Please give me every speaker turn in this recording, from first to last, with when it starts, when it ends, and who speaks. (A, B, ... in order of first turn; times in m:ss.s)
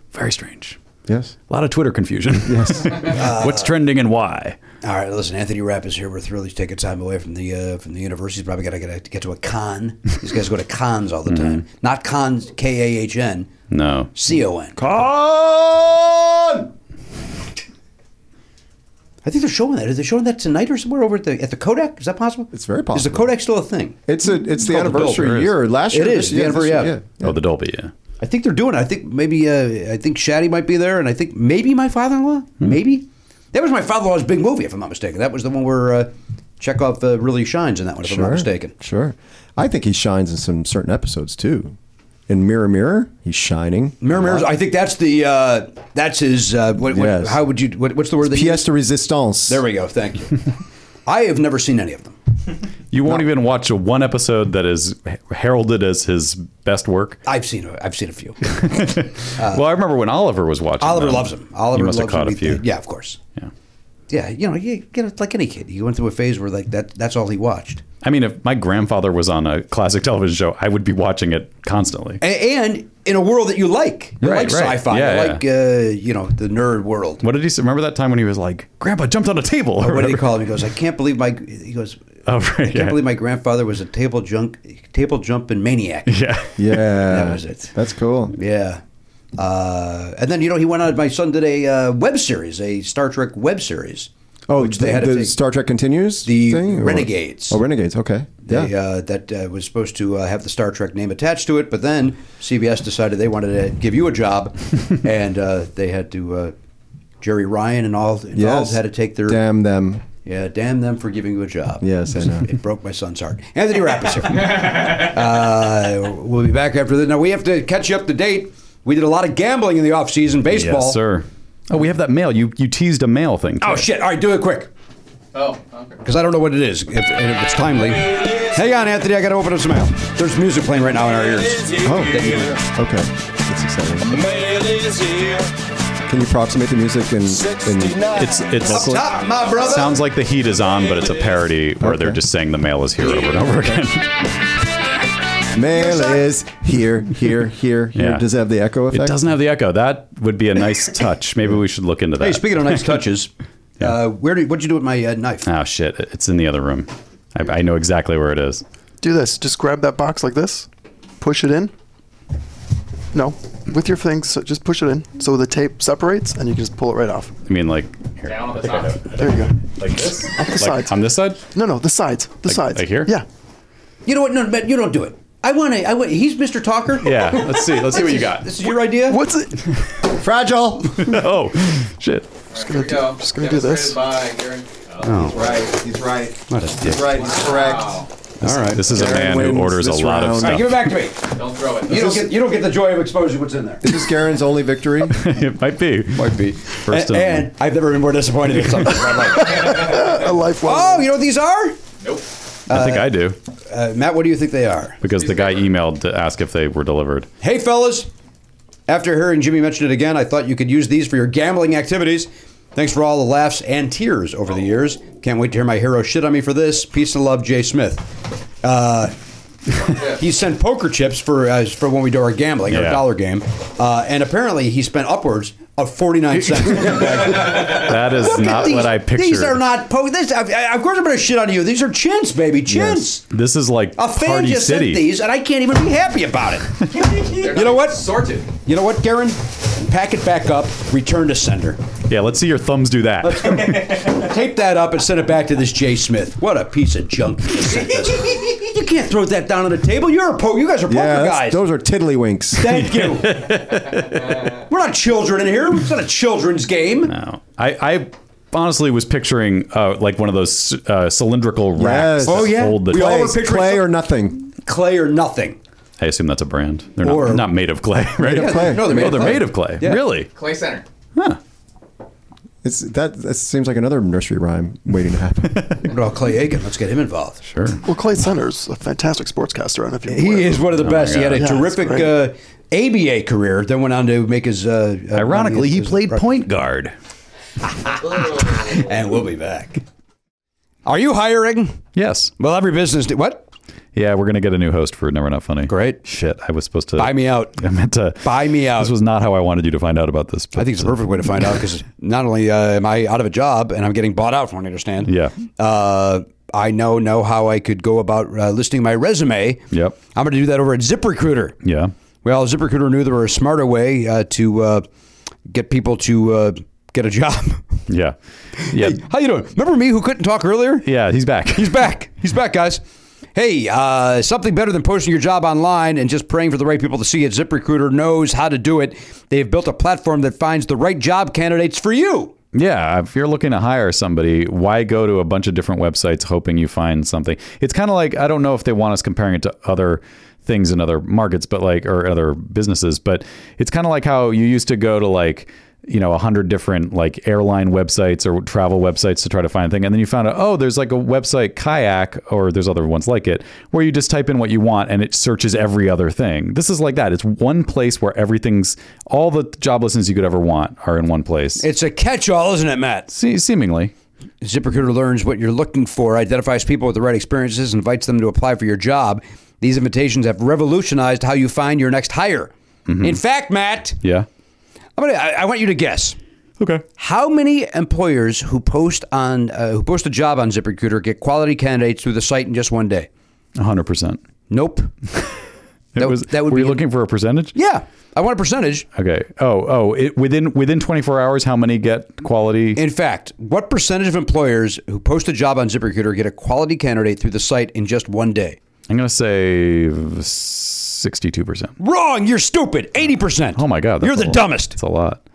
0:00.1-0:00.8 A
0:01.1-0:01.3 B
0:01.5-0:04.6 A
0:02.5-0:03.0 B
0:03.0-0:03.7 C
0:04.8-0:13.5 C
0:11.3-0:11.6 A
0:13.7-0:14.1 A
0:14.2-0:14.8 C
0:14.8-0:16.7 B
0:19.2-0:27.0 C
0:22.5-0:23.3 B
0:24.1-0:27.4 B
0:25.0-0:25.5 A
0:27.2-0:27.9 A
0:28.2-0:38.8 C
0:38.0-0:41.8 B
0:42.3-0:44.5 B
0:44.0-0:48.7 C
0:46.9-0:47.4 B
0:48.2-0:49.6 B
0:49.5-0:50.5 C
0:51.1-0:52.2 C
0:52.9-0:57.2 A
0:57.3-0:58.5 C
0:58.5-1:02.6 A
0:59.4-0:59.6 C
1:00.8-1:03.2 C
1:04.1-1:07.8 C
1:08.0-1:12.2 A
1:12.2-1:17.2 C
1:14.2-1:15.4 A
1:17.2-1:20.3 A
1:19.8-1:22.0 C
1:22.3-1:23.0 A
1:22.6-1:26.2 C
1:26.1-1:26.5 A
1:26.6-1:28.4 B
1:26.7-1:27.7 C
1:28.3-1:28.8 C
1:29.4-1:35.4 C
1:34.5-1:38.7 B
1:36.2-1:37.6 C
1:38.4-1:46.5 C
1:47.2-1:49.4 C
1:48.3-1:50.0 B
1:50.2-2:01.0 C
1:51.8-1:52.5 B
2:00.5-2:03.9 A
2:03.6-2:04.7 C
2:05.3-2:06.0 D
2:06.0-2:12.5 C
2:11.8-2:14.8 B
2:16.1-2:19.1 B
2:18.2-2:19.0 A
2:18.6-2:20.0 C
2:19.6-2:24.3 A
2:21.8-2:22.2 B
2:25.5-2:29.2 B
2:28.0-2:28.3 A
2:28.9-2:32.8 A
2:32.2-2:35.5 C
2:35.4-2:38.6 A
2:39.0-2:40.7 E
2:41.2-2:41.7 E
2:43.1-2:47.3 E
2:47.5-2:51.4 A
2:48.2-2:49.1 D
2:49.1-2:53.3 E
2:52.5-2:53.1 A
2:54.0-2:59.2 C
2:57.0-2:58.5 A
2:59.1-2:59.6 E
3:00.0-3:01.2 B
3:01.0-3:02.3 A
3:02.5-3:05.7 D
3:02.6-3:04.0 E
3:05.0-3:05.5 C
3:05.3-3:08.1 B
3:06.5-3:07.4 C
3:07.1-3:08.1 D
3:08.4-3:08.9 C
3:08.5-3:10.9 A
3:08.6-3:10.7 B
3:10.4-3:11.3 C
3:11.3-3:12.2 D
3:11.9-3:14.0 C
3:13.8-3:15.2 B
3:15.1-3:17.5 A
3:16.2-3:20.1 C
3:19.4-3:21.1 E
3:20.6-3:21.8 C
3:22.7-3:25.0 C
3:22.7-3:23.4 A
3:25.0-3:27.3 A
3:25.2-3:25.6 D
3:27.4-3:28.1 C
3:28.9-3:39.1 C
3:39.8-3:53.2 C
3:42.7-3:43.0 A
3:46.4-3:49.6 A
3:53.3-3:55.0 A
3:54.0-4:01.8 C
3:57.1-3:58.5 D
4:02.1-4:04.0 A
4:03.2-4:11.6 C
4:10.9-4:12.8 B
4:12.6-4:17.1 C
4:12.7-4:14.4 A
4:17.1-4:23.3 A
4:21.8-4:24.5 B
4:22.2-4:24.0 C
4:24.6-4:25.6 C
4:26.0-4:30.3 A
4:27.0-4:27.5 C
4:28.2-4:29.4 B
4:28.2-4:30.0 C
4:30.3-4:30.8 D
4:32.6-4:35.8 B
4:35.6-4:35.8 A
4:35.8-4:37.4 C
4:37.5-4:37.8 A
4:37.8-4:40.8 E
4:40.1-4:46.3 C
4:40.8-4:41.5 A
4:41.4-4:42.2 E
4:45.1-4:46.9 A
4:47.7-4:49.8 C
4:48.0-4:48.8 D
4:50.8-4:51.8 C
4:52.0-4:52.3 A
4:52.4-4:53.4 C
4:54.0-5:01.0 A
4:55.7-4:56.0 C
4:57.0-4:57.6 C
4:58.2-4:58.9 C
5:00.6-5:11.6 C
5:05.0-5:05.4 A
5:09.7-5:10.0 A
5:11.6-5:11.9 A
5:12.2-5:14.8 C
5:15.5-5:17.7 C
5:17.9-5:19.0 A
5:18.8-5:20.9 C
5:20.8-5:21.8 A
5:21.5-5:22.8 C
5:23.4-5:32.3 C
5:32.5-6:01.6 A
6:01.6-6:03.1 C
6:03.1-6:03.9 A
6:04.4-6:12.5 C
6:12.9-6:13.2 A
6:13.0-6:14.0 C
6:14.0-6:14.3 A
6:15.0-6:16.2 C
6:16.6-6:16.8 A
6:17.0-6:23.1 C
6:23.6-6:24.2 A
6:24.5-6:24.9 C
6:26.0-6:27.6 A
6:26.0-6:26.8 C
6:27.5-6:28.9 C
6:29.0-6:32.8 A
6:32.8-6:38.6 C
6:38.9-6:41.7 A
6:41.8-6:44.8 C
6:43.5-6:45.2 A